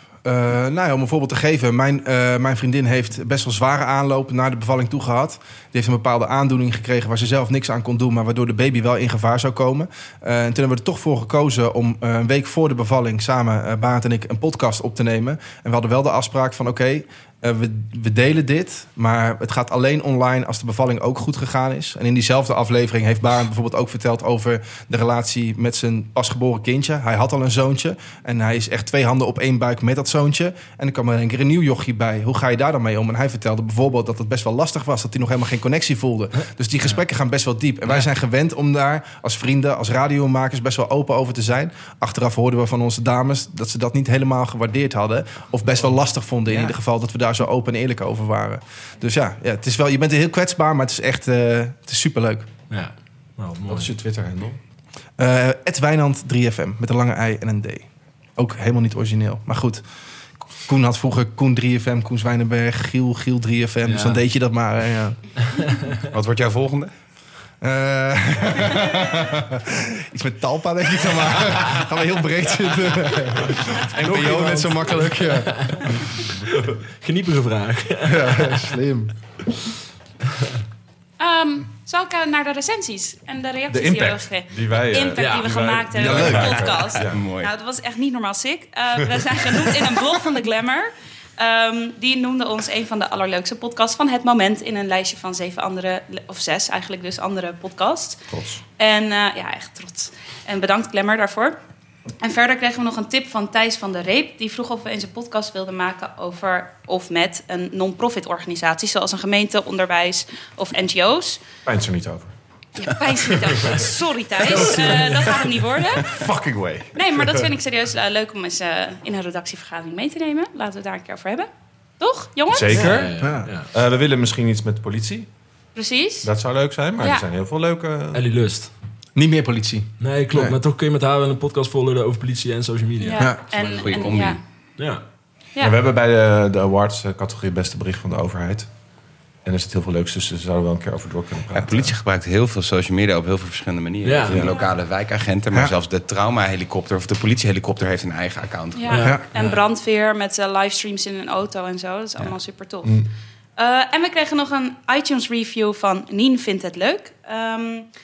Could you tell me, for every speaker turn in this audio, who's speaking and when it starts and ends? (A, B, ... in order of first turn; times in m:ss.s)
0:00.2-0:52.5 A
0:52.7-0:53.9 B
0:53.7-0:54.6 C
0:55.2-0:59.8 A
1:00.6-1:05.2 A
1:03.8-1:04.2 B
1:05.6-1:05.9 B
1:06.0-1:06.9 D
1:07.6-1:15.7 A
1:14.0-1:18.7 B
1:18.0-1:19.1 A
1:21.2-1:38.2 E
1:23.7-1:27.2 C
1:25.2-1:25.6 B
1:26.0-1:26.7 A
1:26.9-1:27.5 D
1:38.3-1:38.6 C
1:38.8-1:41.6 E
1:42.2-1:51.4 E
1:51.6-1:52.3 C
1:52.8-1:56.2 E
1:54.5-1:55.1 B
1:54.5-1:55.3 C
1:56.0-1:57.5 C
1:56.9-2:01.5 E
2:02.0-2:02.9 E
2:02.5-2:03.2 C
2:02.7-2:03.7 B
2:03.2-2:03.5 A
2:03.7-2:05.3 C
2:05.7-2:06.3 E
2:06.2-2:08.2 C
2:07.0-2:07.2 E
2:08.1-2:08.7 B
2:09.2-2:10.6 A
2:10.0-2:13.3 B
2:13.0-2:14.4 E
2:13.2-2:13.4 A
2:13.5-2:14.4 D
2:14.8-2:15.0 B
2:15.6-2:18.7 C
2:19.4-2:21.9 C
2:21.5-2:29.1 D
2:24.0-2:24.5 B
2:24.3-2:24.5 C
2:28.7-2:33.0 E
2:28.9-2:29.6 B
2:33.6-2:37.9 E